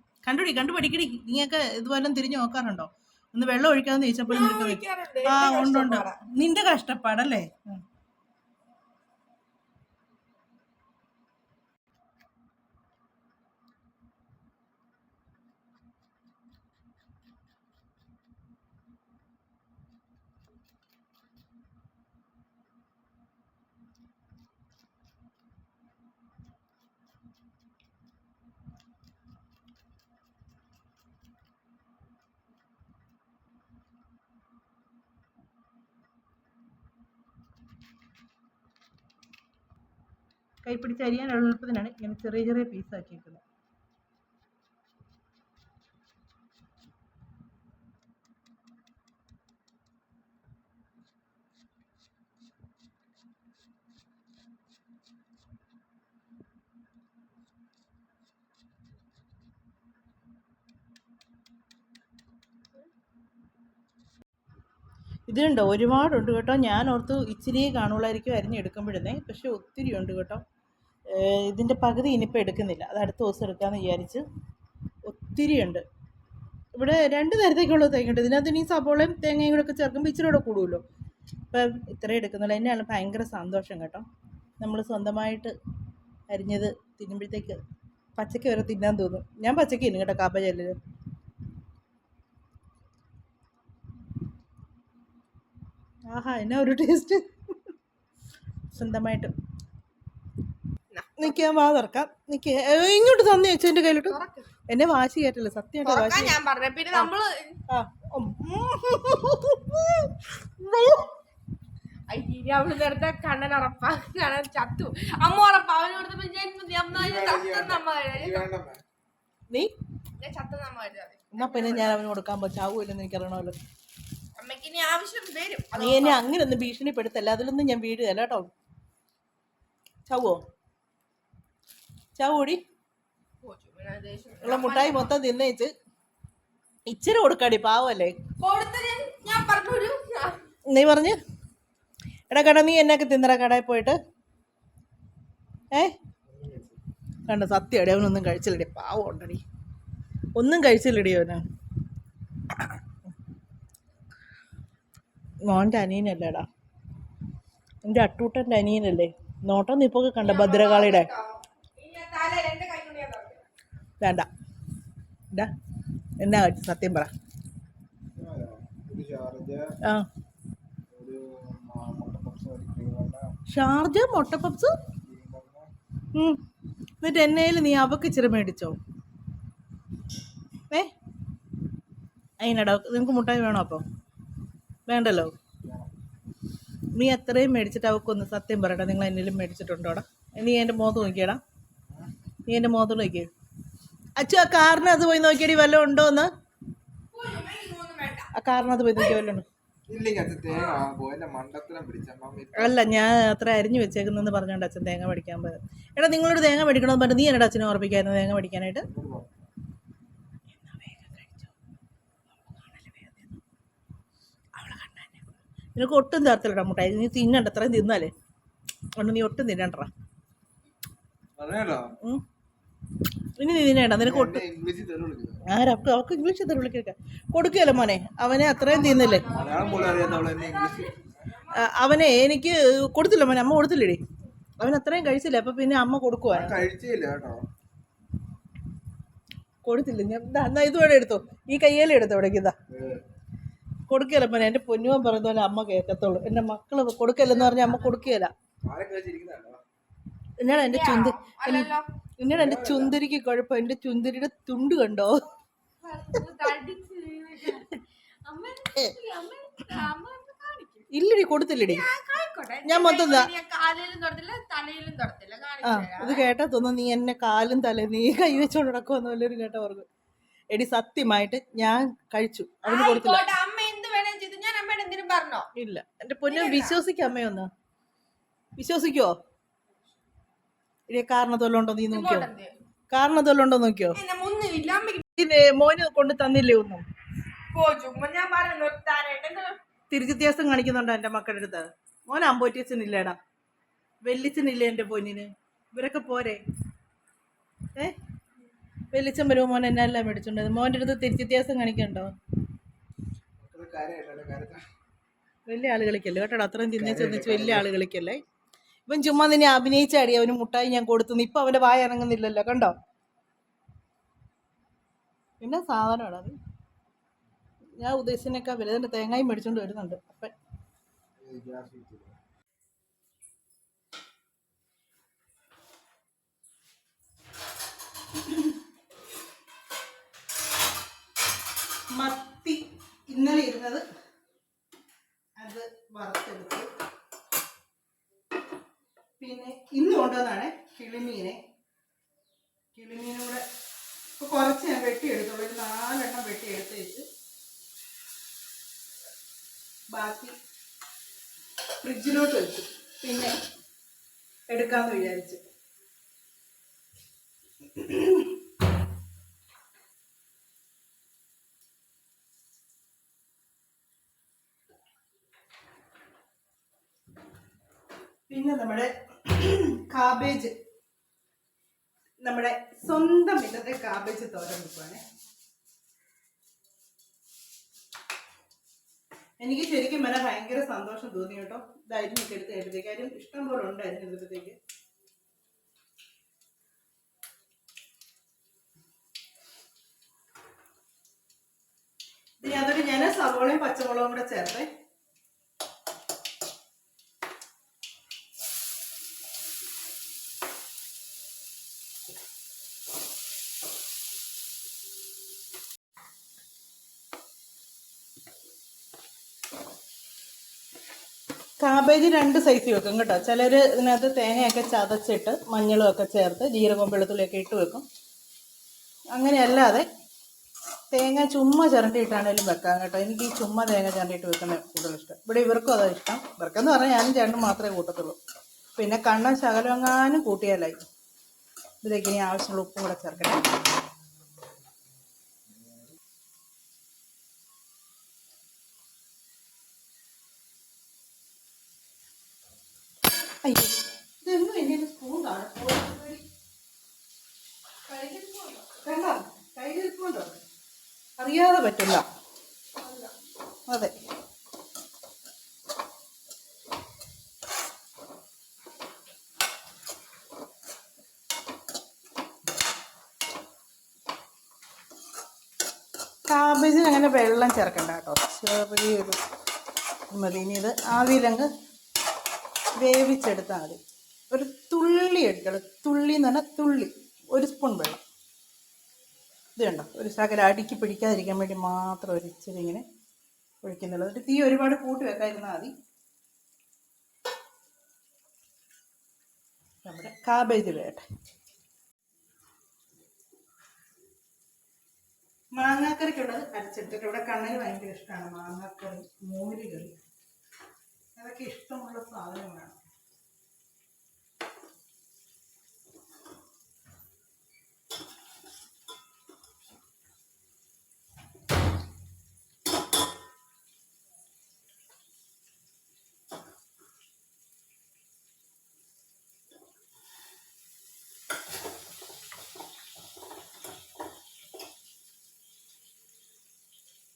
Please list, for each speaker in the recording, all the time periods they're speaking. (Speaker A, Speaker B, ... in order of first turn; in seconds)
Speaker A: 0.2-7.8, 40.6-43.4, 65.3-70.4, 71.1-74.2, 75.0-75.8, 76.7-80.8, 81.5-84.0, 84.6-85.5, 86.3-87.6, 88.2-90.8, 96.1-97.5, 98.7-99.3, 101.2-104.2, 104.7-106.3, 107.7-111.1, 121.3-123.5, 125.8-128.5, 130.1-130.4, 132.2-132.6, 134.4-135.7, 136.8-138.2, 140.7-141.2, 142.3-144.0, 147.3-149.4, 150.3-151.4, 155.4-156.5, 157.8-161.1, 164.0-164.3, 166.2-167.1, 173.5-174.8, 176.1-176.4, 177.0-178.8, 182.4-183.8, 184.9-185.3, 186.9-191.4, 192.5-193.3, 194.2-196.3, 198.3-199.4, 202.6-208.8, 210.6-211.5, 212.3-213.4, 214.5-218.1, 218.9-219.9, 223.4-224.4, 225.4-229.3, 231.5-234.0, 234.6-236.6, 239.6-242.6, 243.9-248.3, 250.4-255.2, 260.9-261.8, 262.6-263.3, 265.6-269.9, 270.5-273.3, 275.5-277.5, 278.6-279.2, 280.9-282.3, 282.9-284.0, 285.2-286.8, 289.9-293.2, 294.0-296.4, 298.9-302.1, 305.5-308.2, 308.9-312.7, 315.4-316.3, 317.8-320.3, 331.9-333.8, 335.4-336.7, 339.2-341.4, 342.7-343.4, 344.2-347.0, 349.9-350.3, 351.8-353.3, 354.5-355.4, 357.7-358.3, 368.3-370.5, 372.2-375.0, 379.4-384.6, 392.4-394.7, 411.6-417.8, 419.1-419.9, 420.9-428.1, 428.8-430.8, 431.8-433.4, 443.4-446.2, 447.9-450.4, 451.2-452.0, 453.7-453.9, 466.3-469.2, 470.1-471.5, 472.8-473.8, 474.3-478.0, 479.6-482.8, 483.6-485.7, 489.8-491.0, 495.5-500.0, 501.2-502.8
Speaker B: 4.3-6.2, 100.9-101.3, 103.9-104.5, 105.8-107.6, 112.1-118.5, 120.2-122.0, 124.4-126.2, 133.4-135.1, 138.4-140.4, 160.2-163.4, 197.1-198.3, 200.5-200.9, 228.5-231.7, 247.3-248.1, 250.5-251.8, 255.8-260.9, 261.5-266.2, 272.6-275.5, 276.3-276.8, 281.9-282.5, 283.9-285.0, 287.5-289.6, 448.0-448.2
Speaker C: 116.9-118.8, 146.2-146.8, 168.1-169.7, 170.9-173.3, 175.0-175.7, 185.6-185.9, 199.9-202.9, 208.9-209.5, 221.3-221.9, 224.0-225.4, 229.3-231.0, 236.3-237.4, 242.7-243.0, 248.6-249.6, 252.3-252.9, 303.4-304.6, 306.7-307.7, 321.2-322.2